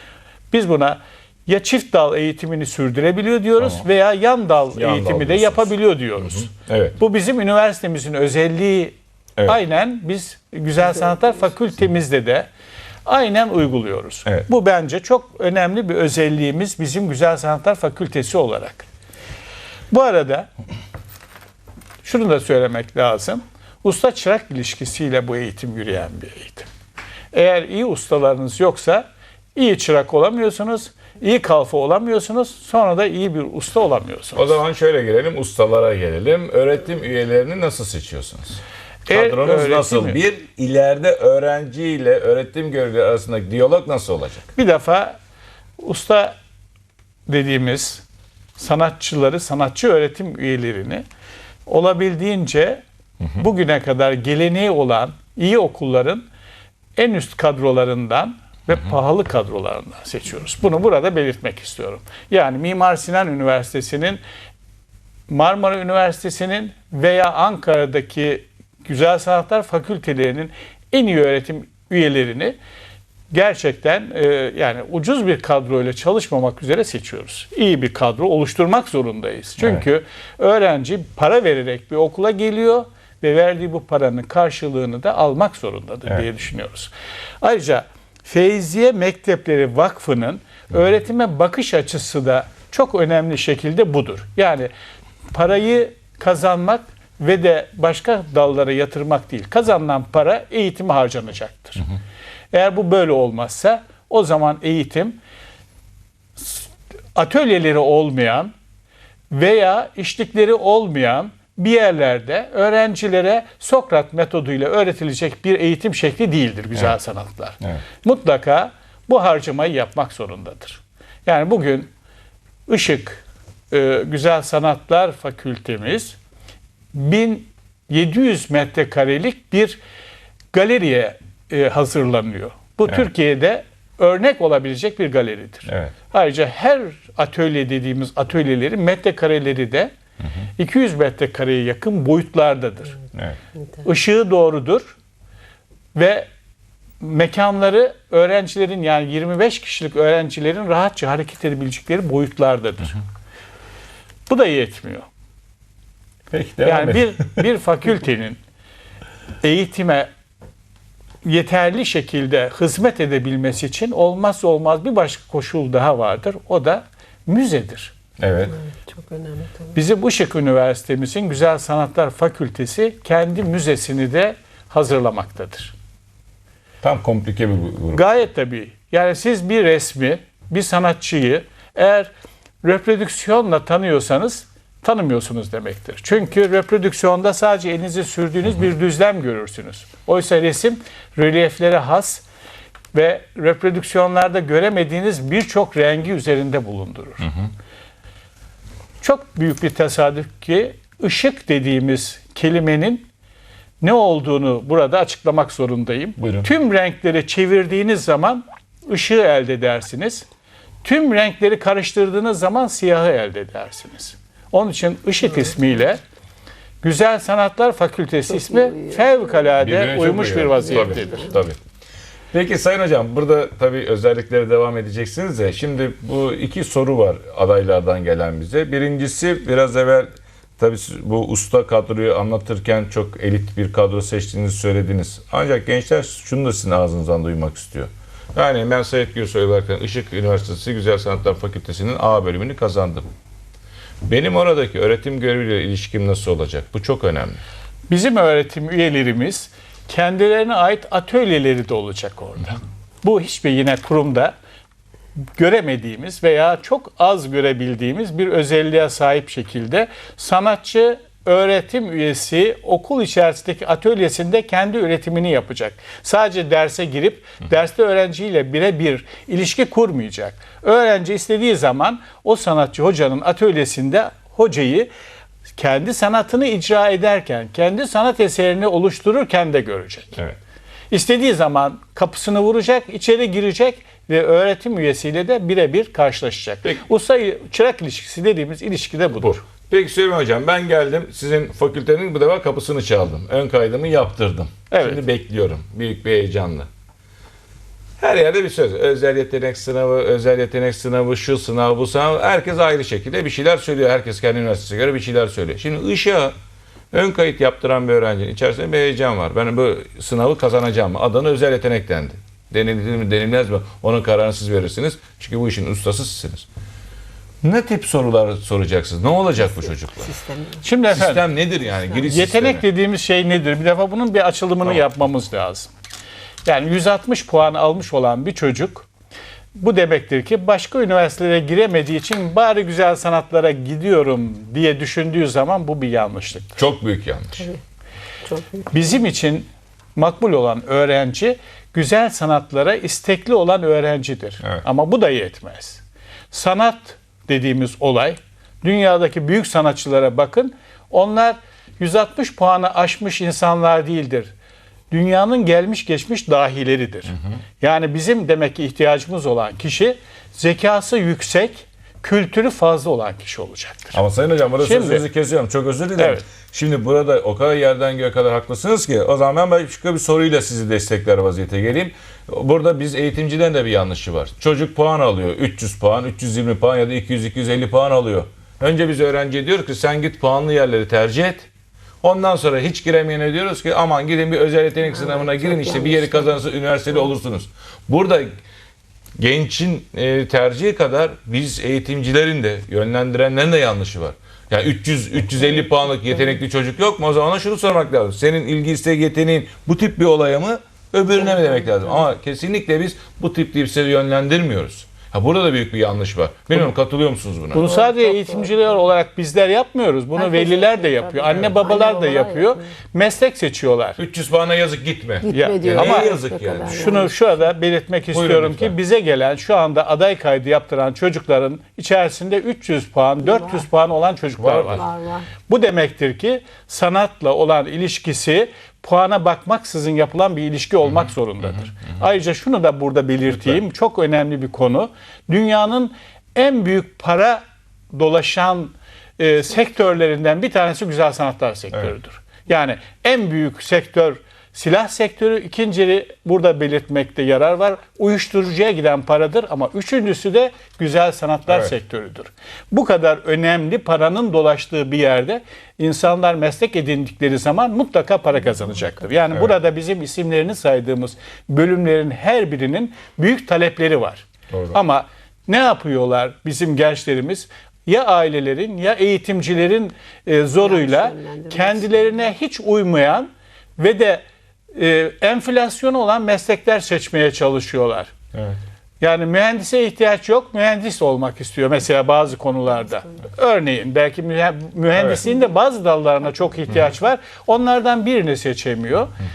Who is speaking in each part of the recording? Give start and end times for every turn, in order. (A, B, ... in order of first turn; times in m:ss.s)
0:00.5-0:12.5 A
0:03.6-0:03.8 B
0:04.8-0:07.0 B
0:13.0-0:18.9 A
0:19.9-0:20.5 A
0:22.0-0:26.7 A
0:27.3-0:34.6 A
0:34.4-0:44.5 B
0:39.1-0:40.2 A
0:44.6-0:45.2 A
0:45.8-0:46.4 A
0:47.3-0:48.0 A
0:48.6-0:51.0 A
0:51.7-0:52.8 A
0:53.4-0:56.3 A
0:57.0-1:04.2 A
1:05.3-1:12.6 A
1:13.3-1:26.9 A
1:27.4-1:34.7 A
1:35.3-1:41.9 A
1:42.5-1:45.2 A
1:46.4-1:48.5 A
1:49.3-2:01.9 A
2:02.7-2:06.2 A
2:06.9-2:09.8 A
2:10.5-2:19.9 A
2:15.7-2:15.9 B
2:20.6-2:23.0 A
2:23.8-2:25.0 A
2:26.0-2:26.3 A
2:27.0-2:33.0 A
2:34.3-2:35.1 A
2:36.3-2:37.4 B
2:36.6-2:38.4 A
2:39.4-2:40.1 A
2:41.2-2:47.9 A
2:48.2-2:48.6 B
2:48.7-2:49.6 C
2:49.7-2:55.8 A
2:56.8-2:58.0 B
2:57.9-3:02.1 A
3:02.6-3:12.2 A
3:12.9-3:17.3 A
3:19.0-3:23.1 A
3:23.8-3:30.3 A
3:26.2-3:26.5 B
3:30.8-3:36.0 A
3:36.8-3:41.3 A
3:39.6-3:41.6 B
3:42.3-4:03.1 B
4:04.0-4:07.4 B
4:07.9-4:14.3 A
4:15.4-4:34.9 A
4:35.6-4:40.1 A
4:40.9-4:49.4 A
4:49.2-4:56.7 B
4:54.7-4:55.0 A
4:58.0-5:06.4 B
5:06.9-5:16.5 B
5:17.4-5:20.1 B
5:20.1-5:20.6 C
5:20.6-5:21.2 A
5:20.9-5:22.6 B
5:22.1-5:25.7 A
5:26.4-5:28.9 A
5:29.6-5:36.6 A
5:36.6-5:37.5 B
5:38.3-5:38.6 C
5:38.7-5:54.3 A
5:54.9-6:04.0 A
6:03.9-6:21.5 B
6:04.6-6:05.0 A
6:06.0-6:06.2 A
6:22.0-6:28.3 B
6:25.0-6:26.3 C
6:29.2-6:47.8 B
6:47.5-6:54.0 A
6:47.6-6:48.5 C
6:50.2-6:52.6 C
6:54.0-6:57.0 B
6:55.2-6:57.1 C
6:55.3-6:56.1 A
6:56.7-7:04.8 A
6:58.1-6:58.8 B
7:04.4-7:04.8 B
7:04.7-7:05.3 C
7:05.5-7:17.4 A
7:17.9-7:58.1 A
7:44.5-7:44.8 B
7:50.6-7:51.9 C
7:59.0-8:09.2 A